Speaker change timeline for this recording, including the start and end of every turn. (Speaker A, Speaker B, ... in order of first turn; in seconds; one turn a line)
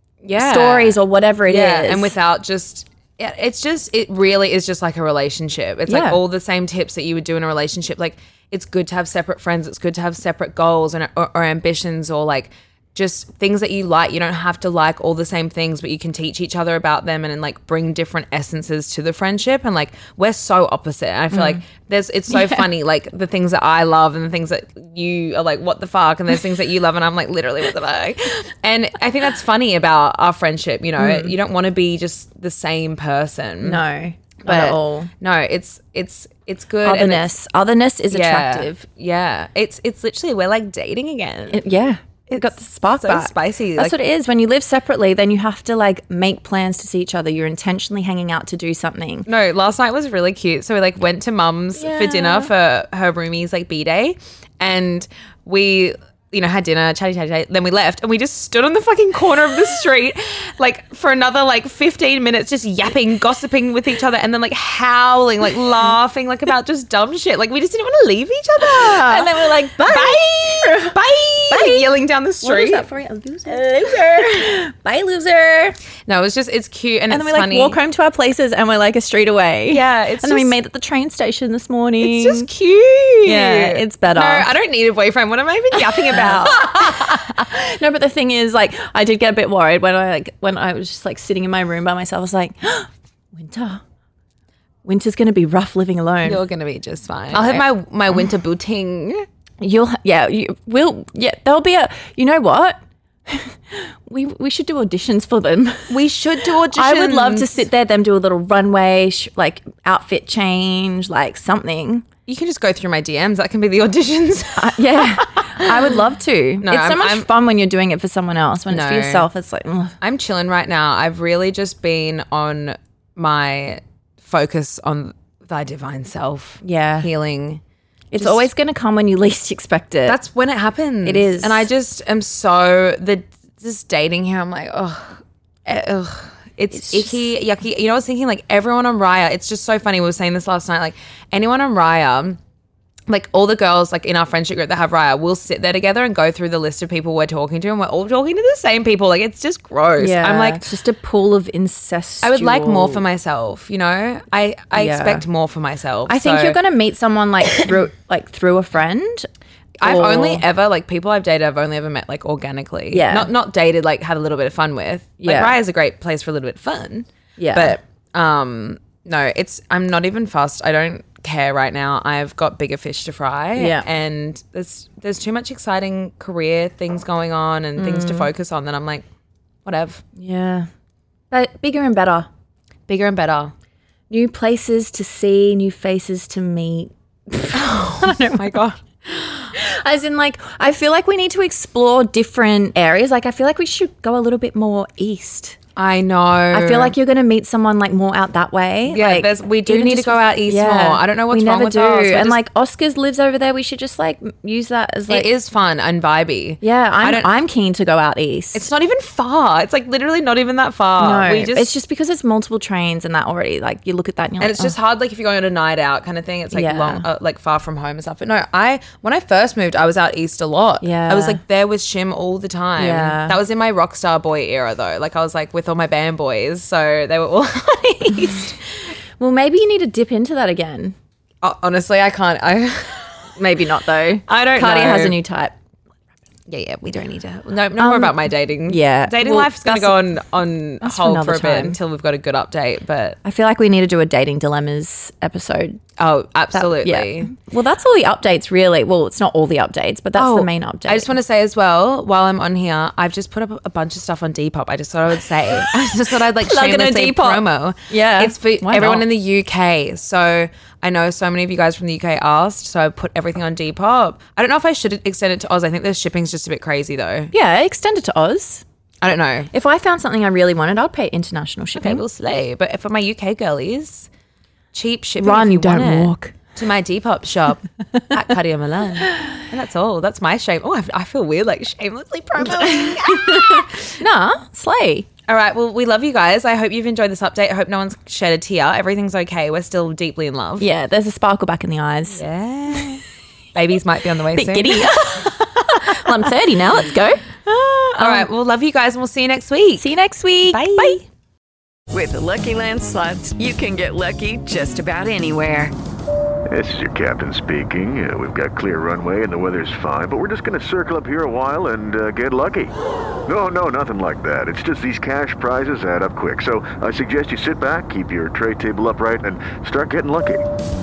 Speaker A: 0.2-33.8
Speaker B: 0.3-2.2
Speaker B: 5.9-6.2
Speaker B: 21.3-21.6
Speaker B: 22.3-22.6
Speaker B: 31.0-31.4
Speaker B: 33.6-35.1
Speaker A: 34.4-37.3
Speaker B: 36.8-38.8
Speaker A: 38.1-41.6
Speaker B: 41.5-49.3
Speaker A: 42.3-44.0
Speaker A: 49.3-69.3
Speaker B: 51.8-52.5
Speaker B: 68.7-71.0
Speaker A: 69.9-72.9
Speaker B: 71.5-71.9
Speaker B: 72.4-75.8
Speaker A: 73.6-74.4
Speaker A: 76.1-77.8
Speaker B: 77.1-82.5
Speaker A: 79.7-80.5
Speaker A: 82.0-87.2
Speaker B: 83.2-84.5
Speaker B: 85.9-93.8
Speaker B: 94.8-96.5
Speaker A: 96.2-99.2
Speaker B: 97.3-98.2
Speaker B: 99.6-112.0
Speaker A: 105.9-107.5
Speaker A: 112.3-116.0
Speaker B: 114.6-120.0
Speaker A: 116.6-117.3
Speaker A: 118.7-119.3
Speaker A: 120.0-127.6
Speaker B: 126.6-127.1
Speaker B: 128.1-130.2
Speaker A: 128.1-128.5
Speaker A: 130.1-142.4
Speaker B: 131.0-131.7
Speaker B: 136.7-137.3
Speaker A: 143.1-150.6
Speaker B: 150.0-153.0
Speaker A: 152.2-156.6
Speaker B: 154.7-155.2
Speaker B: 156.1-159.3
Speaker A: 159.8-179.0
Speaker B: 159.8-160.4
Speaker B: 162.9-163.3
Speaker B: 165.2-165.6
Speaker B: 167.4-167.8
Speaker B: 173.6-173.8
Speaker B: 177.8-178.3
Speaker A: 179.7-180.0
Speaker B: 180.2-180.7
Speaker B: 181.3-182.3
Speaker A: 182.9-183.5
Speaker B: 184.1-188.6
Speaker A: 187.5-189.5
Speaker B: 189.5-195.6
Speaker A: 195.8-196.9
Speaker B: 196.5-205.3
Speaker A: 198.9-202.4
Speaker A: 205.1-207.3
Speaker B: 206.6-208.7
Speaker A: 208.5-211.7
Speaker B: 211.0-214.8
Speaker A: 214.4-228.6
Speaker B: 216.5-217.1
Speaker B: 220.8-221.4
Speaker B: 222.8-223.4
Speaker B: 229.2-231.0
Speaker A: 231.4-233.3
Speaker B: 233.4-235.6
Speaker A: 234.3-235.2
Speaker A: 236.5-243.2
Speaker B: 237.8-240.1
Speaker B: 240.8-241.8
Speaker B: 243.2-245.8
Speaker A: 246.0-247.3
Speaker B: 246.5-251.1
Speaker A: 250.2-267.3
Speaker B: 256.4-259.1
Speaker B: 267.3-268.6
Speaker A: 269.0-269.5
Speaker B: 269.5-272.0
Speaker A: 271.8-274.1
Speaker A: 274.7-284.0
Speaker B: 275.2-276.4
Speaker B: 282.4-285.1
Speaker A: 285.3-290.7
Speaker B: 290.6-292.3
Speaker A: 292.1-293.0
Speaker A: 293.6-295.2
Speaker B: 294.4-298.3
Speaker A: 297.9-299.9
Speaker B: 299.8-301.0
Speaker A: 300.4-301.1
Speaker C: 301.9-305.7
Speaker D: 306.5-312.7
Speaker D: 313.3-320.4